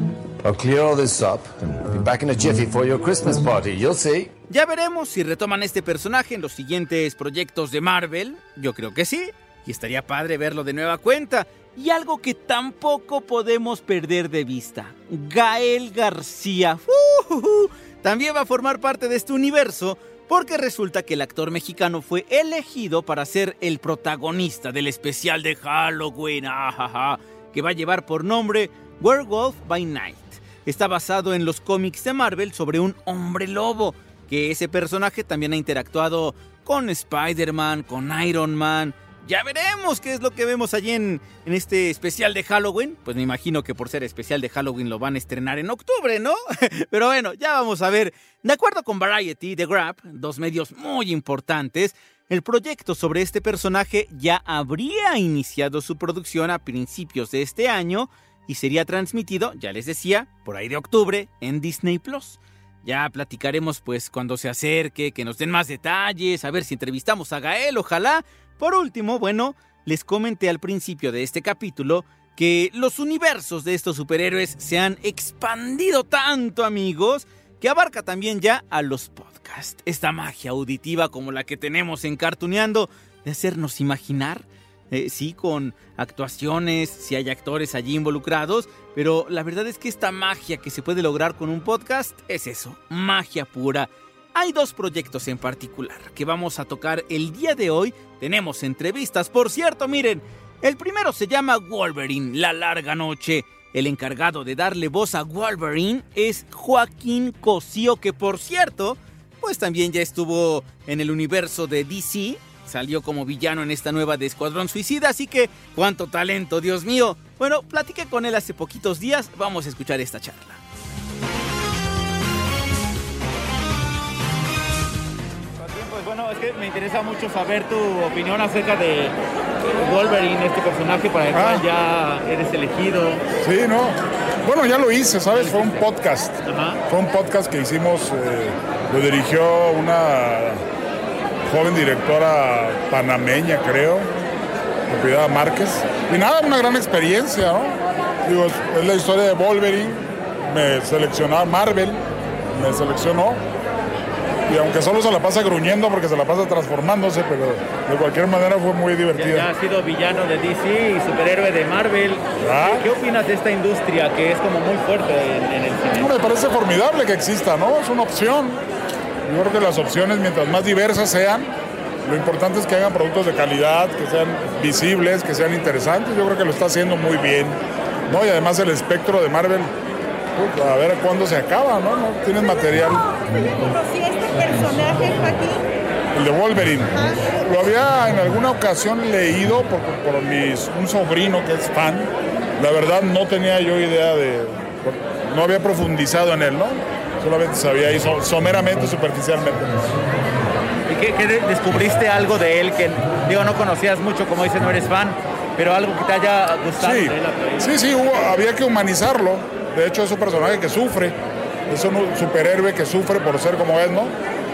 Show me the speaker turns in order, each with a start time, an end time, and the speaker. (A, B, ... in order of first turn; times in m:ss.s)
0:00.4-0:04.3 A
0:04.5-2:00.6 B
2:05.6-2:09.1 B
2:09.7-2:13.2 B
2:11.3-2:11.6 C
2:13.4-2:16.4 C
2:15.4-2:15.8 B
2:16.4-2:16.8 B
2:16.9-2:20.6 C
2:21.4-2:24.1 C
2:24.9-2:32.0 C
2:32.5-2:33.4 C
2:34.5-2:39.5 C
2:39.1-2:46.1 B
2:42.4-2:42.8 C
2:45.9-2:48.6 C
2:49.2-2:51.5 C
2:52.0-2:59.7 C
3:00.4-3:03.8 C
3:04.3-3:05.5 C
3:06.1-3:19.7 C
3:20.9-3:27.7 B
3:26.8-3:31.2 C
3:31.7-3:34.1 C